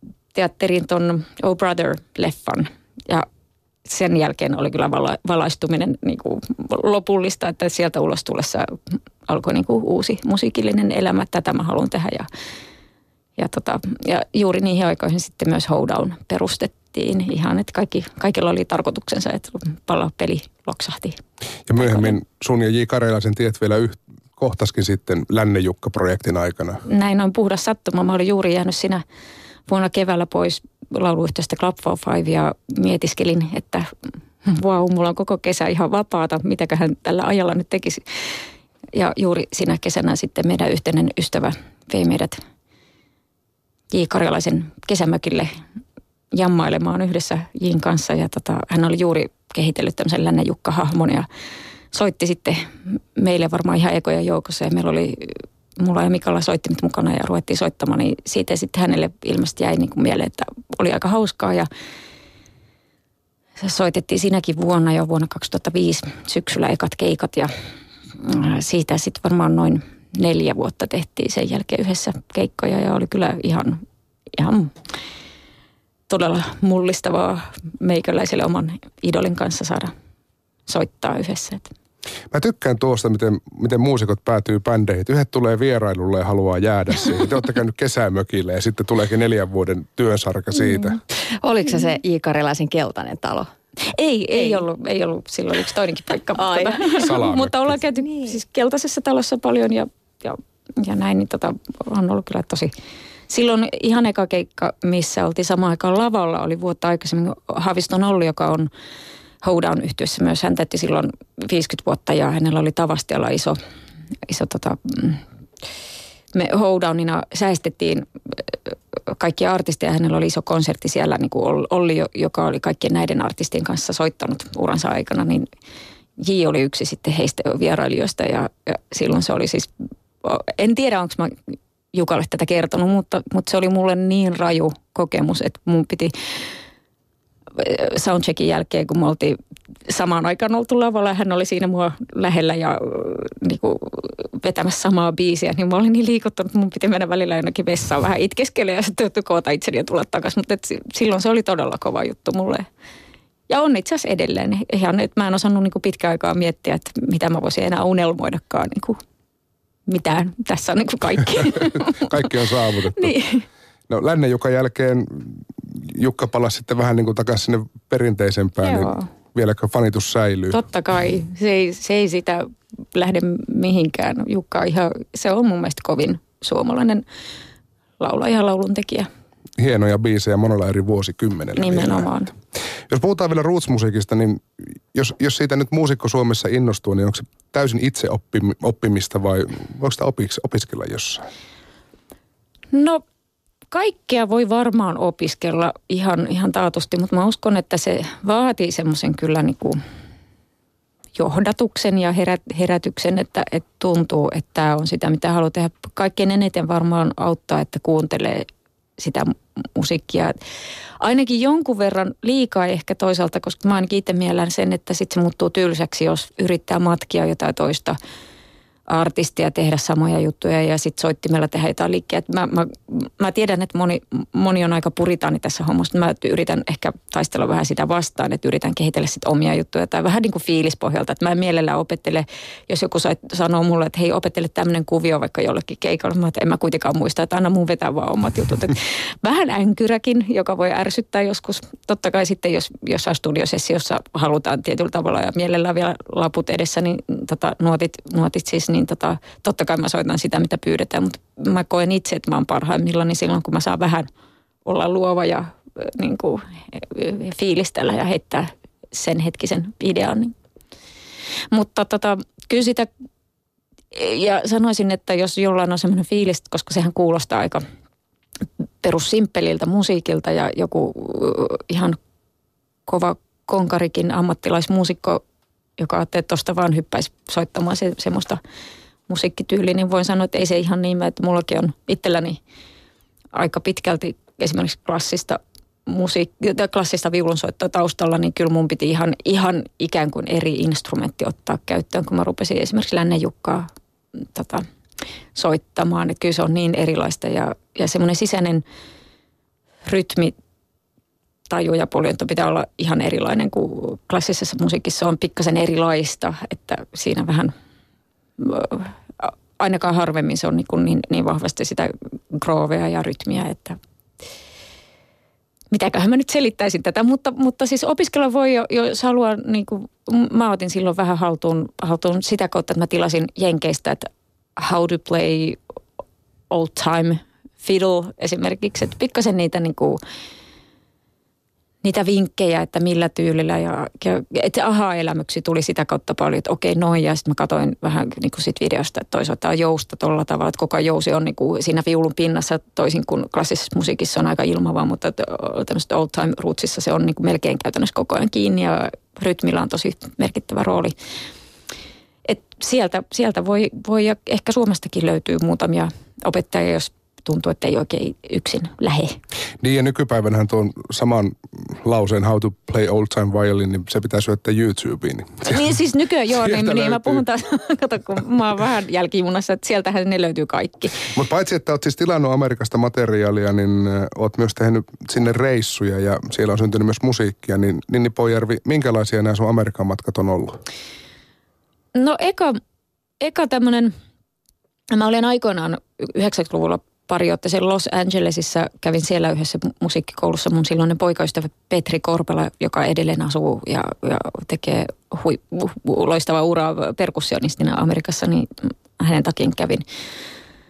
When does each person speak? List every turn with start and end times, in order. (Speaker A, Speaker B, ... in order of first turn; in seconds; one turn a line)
Speaker A: 0.3-3.2
Speaker A: 3.9-12.3
Speaker A: 13.4-21.2
Speaker B: 21.7-26.8
Speaker A: 21.8-22.1
Speaker A: 26.9-29.0
Speaker A: 29.7-33.9
Speaker A: 34.4-38.4
Speaker A: 38.9-42.4
Speaker A: 43.9-45.5
Speaker A: 46.3-51.3
Speaker A: 51.9-61.7
Speaker A: 63.6-67.5
Speaker A: 68.2-74.7
Speaker A: 76.1-79.9
Speaker A: 80.7-81.7
Speaker B: 82.3-91.0
Speaker C: 91.4-93.5
Speaker A: 93.8-102.7
Speaker C: 96.4-97.1
Speaker B: 97.0-97.8
Speaker A: 103.3-108.7
Speaker A: 109.4-113.6
Speaker A: 114.3-115.2
Speaker A: 116.3-125.5
Speaker A: 126.2-129.7
Speaker A: 130.2-131.4
Speaker A: 131.9-136.4
Speaker A: 137.5-152.7
Speaker A: 153.5-159.0
Speaker A: 159.9-162.2
Speaker B: 161.5-163.1
Speaker A: 162.9-163.4
Speaker B: 163.9-170.6
Speaker A: 168.6-169.1
Speaker A: 170.5-177.0
Speaker A: 178.0-179.1
Speaker B: 179.6-182.1
Speaker A: 181.6-182.3
Speaker B: 182.9-191.3
Speaker A: 192.7-193.0
Speaker A: 193.7-199.8
Speaker A: 201.1-210.4
Speaker A: 211.0-218.0
Speaker A: 218.9-254.1
Speaker A: 254.6-260.4
Speaker A: 261.5-262.9
Speaker A: 263.9-267.6
Speaker A: 268.8-272.0
Speaker A: 272.9-275.2
Speaker A: 275.8-278.4
Speaker A: 279.1-282.4
Speaker A: 283.3-294.7
Speaker A: 295.4-298.6
Speaker A: 299.8-300.4
Speaker A: 301.5-307.5
Speaker A: 308.4-313.8
Speaker A: 315.7-325.6
Speaker A: 326.5-330.0
Speaker A: 331.8-350.9
Speaker A: 352.2-359.1
Speaker B: 359.6-365.7
Speaker A: 365.4-371.0
Speaker B: 366.4-367.2
Speaker B: 371.1-380.6
Speaker A: 381.9-382.6
Speaker A: 383.2-383.9
Speaker A: 384.9-399.8